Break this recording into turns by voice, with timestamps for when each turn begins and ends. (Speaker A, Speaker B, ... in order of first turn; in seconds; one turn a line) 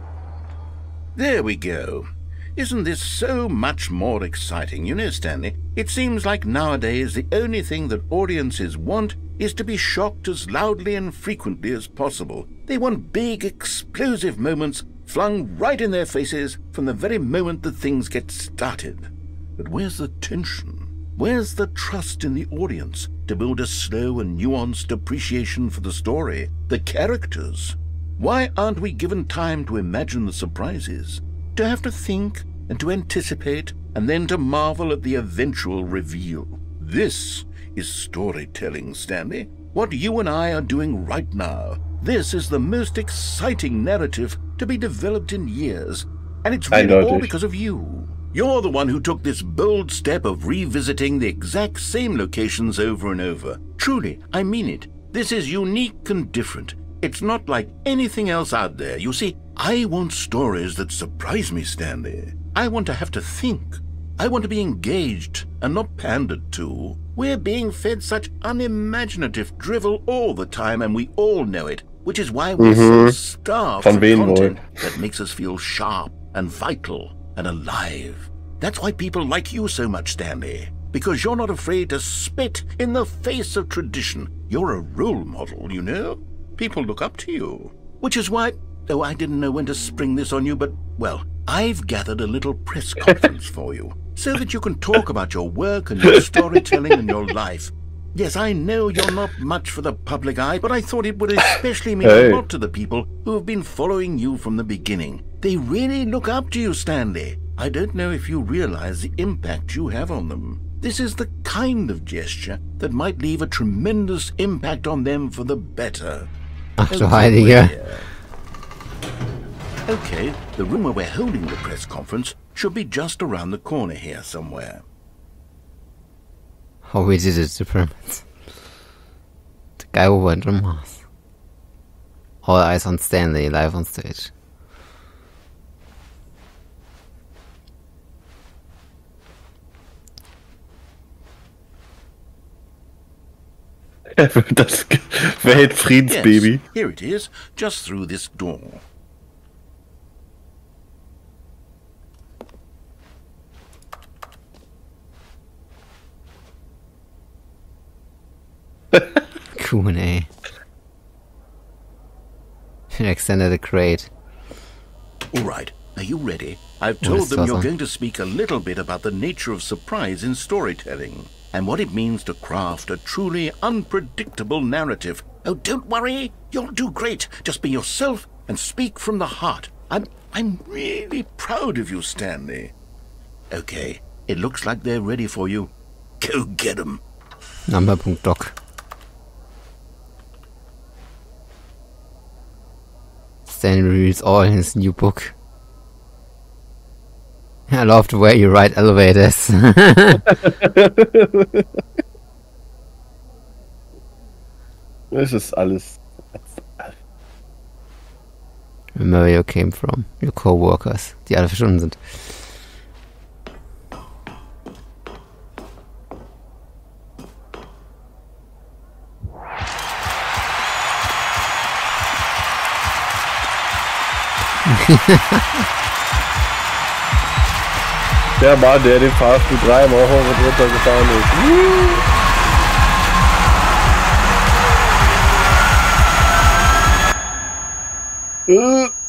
Speaker A: 1.2-116.3
Speaker B: 46.7-47.3
Speaker B: 72.6-73.2
Speaker B: 73.8-74.7
Speaker B: 102.0-102.4
Speaker C: 116.8-117.7
Speaker A: 116.9-118.1
Speaker A: 119.9-124.8
Speaker C: 126.9-128.3
Speaker C: 129.8-131.0
Speaker C: 132.4-134.3
Speaker B: 144.2-146.6
Speaker A: 145.4-148.8
Speaker C: 159.6-160.3
Speaker C: 162.9-164.1
Speaker A: 165.3-182.7
Speaker C: 167.0-167.7
Speaker A: 183.5-187.0
Speaker C: 187.7-188.6
Speaker C: 193.5-195.4
Speaker C: 197.7-200.3
Speaker B: 200.3-201.7
Speaker B: 205.1-206.9
Speaker C: 208.9-212.4
Speaker C: 224.7-225.5
Speaker B: 228.4-232.1
Speaker B: 238.5-238.9